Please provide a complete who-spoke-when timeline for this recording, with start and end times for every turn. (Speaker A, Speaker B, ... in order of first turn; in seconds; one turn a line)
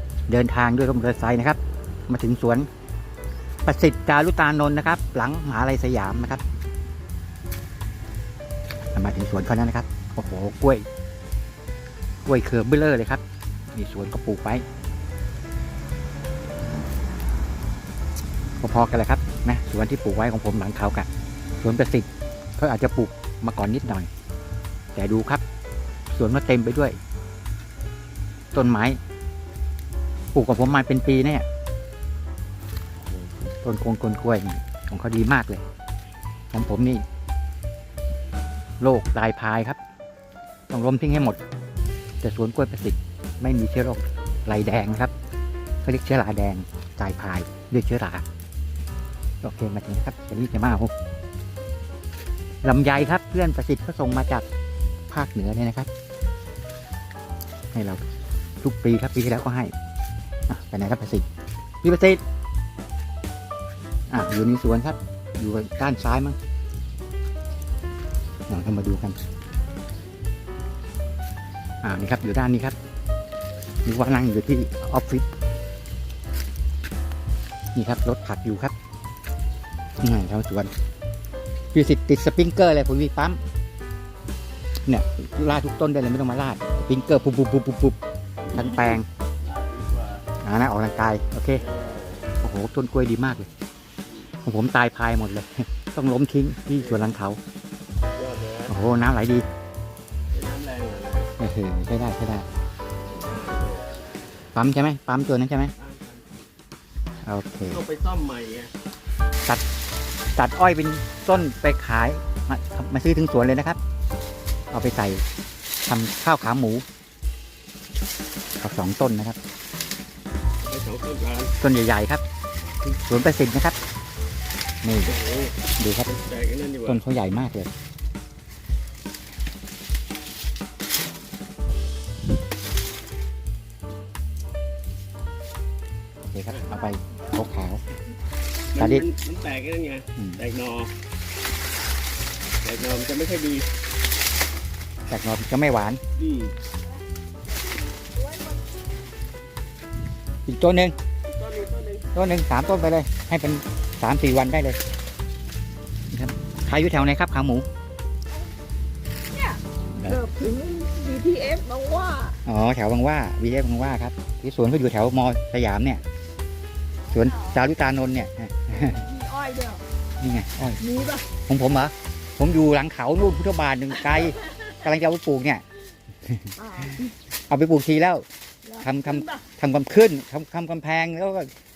Speaker A: 0.3-2.7
Speaker A: 3.6-6.4
Speaker A: 8.9-10.8
Speaker A: 12.2-13.2
Speaker A: 13.7-14.6
Speaker A: 18.6-21.1
Speaker A: 21.6-24.1
Speaker A: 24.9-25.4
Speaker A: 26.1-27.0
Speaker A: 28.5-29.0
Speaker A: 30.3-31.4
Speaker A: 33.0-35.6
Speaker A: 36.5-37.0
Speaker A: 38.8-39.8
Speaker A: 40.7-41.4
Speaker A: 42.2-45.1
Speaker A: 45.8-48.2
Speaker A: 49.4-50.9
Speaker A: 52.6-54.4
Speaker A: 55.1-55.9
Speaker A: 57.7-58.0
Speaker A: 58.6-59.7
Speaker A: 60.5-61.3
Speaker A: 61.8-62.2
Speaker A: 64.1-66.4
Speaker A: 68.5-69.2
Speaker A: 71.8-72.8
Speaker A: 73.8-75.3
Speaker A: 77.7-78.7
Speaker A: 80.0-80.7
Speaker A: 81.7-83.4
Speaker A: 84.8-88.0
Speaker B: 88.5-90.2
Speaker A: 88.5-89.0
Speaker A: 90.4-91.6
Speaker B: 91.6-92.3
Speaker A: 92.4-93.5
Speaker A: 94.4-97.4
Speaker B: 96.8-97.1
Speaker B: 98.1-98.8
Speaker A: 98.7-99.5
Speaker B: 100.3-101.3
Speaker A: 101.4-102.5
Speaker B: 103.0-103.9
Speaker A: 104.5-105.7
Speaker B: 105.8-106.3
Speaker A: 107.2-107.8
Speaker B: 107.7-108.7
Speaker A: 110.3-113.8
Speaker A: 114.7-115.2
Speaker A: 115.8-116.8
Speaker A: 118.6-119.4
Speaker B: 120.6-121.5
Speaker A: 121.6-122.2
Speaker A: 122.9-123.8
Speaker A: 124.8-125.2
Speaker B: 125.0-127.0
Speaker A: 125.8-126.1
Speaker A: 126.8-127.7
Speaker A: 136.3-137.8
Speaker B: 138.7-140.9
Speaker A: 138.8-139.1
Speaker A: 140.2-140.4
Speaker B: 142.6-143.7
Speaker A: 145.1-146.0
Speaker B: 146.2-146.6
Speaker C: 148.2-148.6
Speaker A: 150.4-150.9
Speaker B: 151.3-152.1
Speaker A: 152.1-154.8
Speaker A: 156.1-157.7
Speaker C: 159.3-162.4
Speaker A: 159.9-160.2
Speaker A: 162.4-166.0
Speaker A: 167.1-169.1
Speaker C: 168.8-169.8
Speaker A: 170.2-170.8
Speaker C: 170.8-171.2
Speaker A: 171.4-175.6
Speaker A: 176.2-177.0
Speaker C: 176.6-177.1
Speaker A: 177.5-178.2
Speaker C: 178.7-179.4
Speaker A: 178.8-181.5